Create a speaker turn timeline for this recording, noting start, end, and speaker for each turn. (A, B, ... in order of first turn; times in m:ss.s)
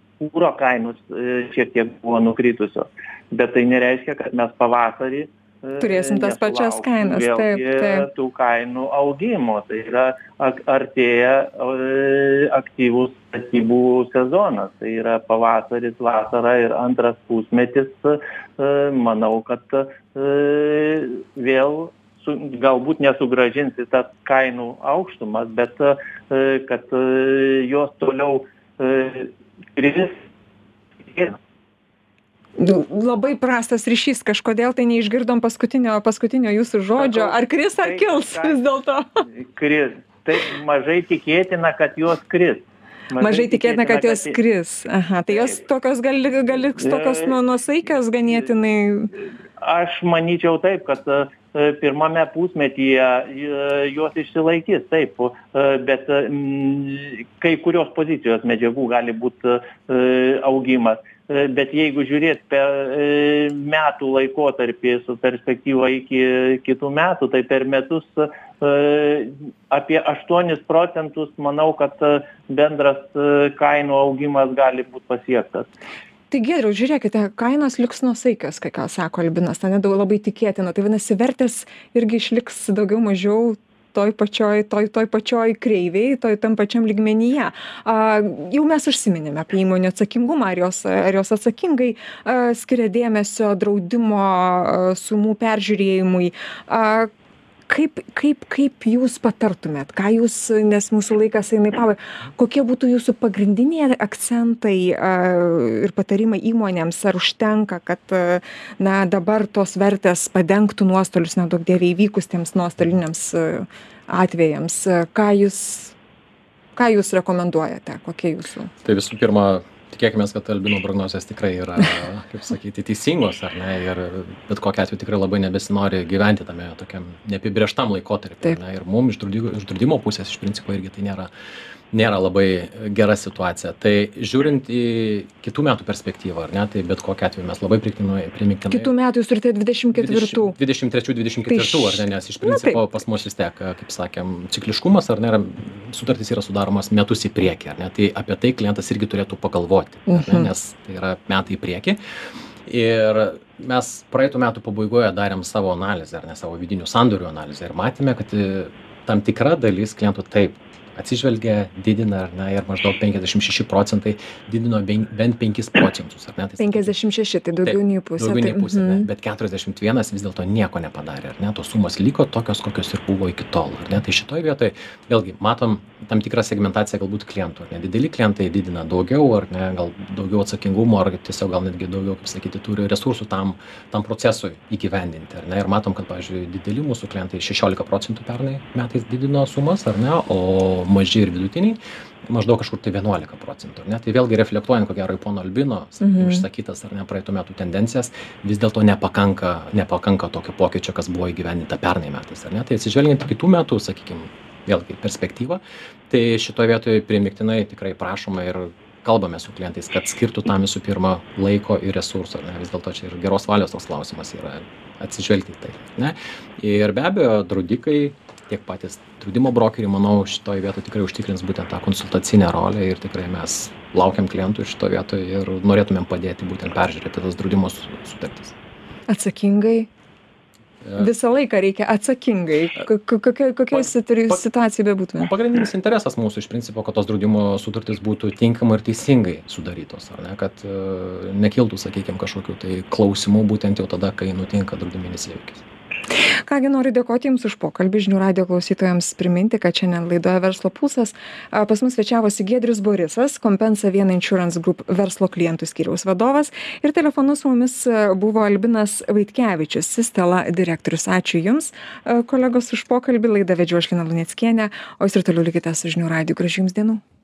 0:00.2-0:30.2 A
0:05.8-0:08.1 B
0:31.0-0:31.4 A
0:32.6-0:39.1 B
0:37.0-0:38.6 A
0:39.4-0:44.4 A
0:43.2-0:49.1 B
0:45.3-0:45.6 A
0:46.8-0:47.3 A
0:49.6-1:15.7 A
1:16.3-1:37.1 B
1:37.7-1:56.0 B
1:56.8-1:58.7 B
1:58.8-2:11.3 C
2:11.9-2:18.9 C
2:18.7-2:20.6 B
2:19.9-2:32.0 C
2:21.5-2:22.8 B
2:30.1-2:30.5 B
2:32.7-2:46.9 C
2:46.6-2:49.1 B
2:47.6-3:48.6 C
3:16.0-3:16.4 B
3:49.1-3:49.9 B
3:50.8-3:51.1 C
3:51.0-3:55.3 B
3:53.7-3:54.4 C
3:55.2-4:05.6 C
4:06.5-4:27.0 B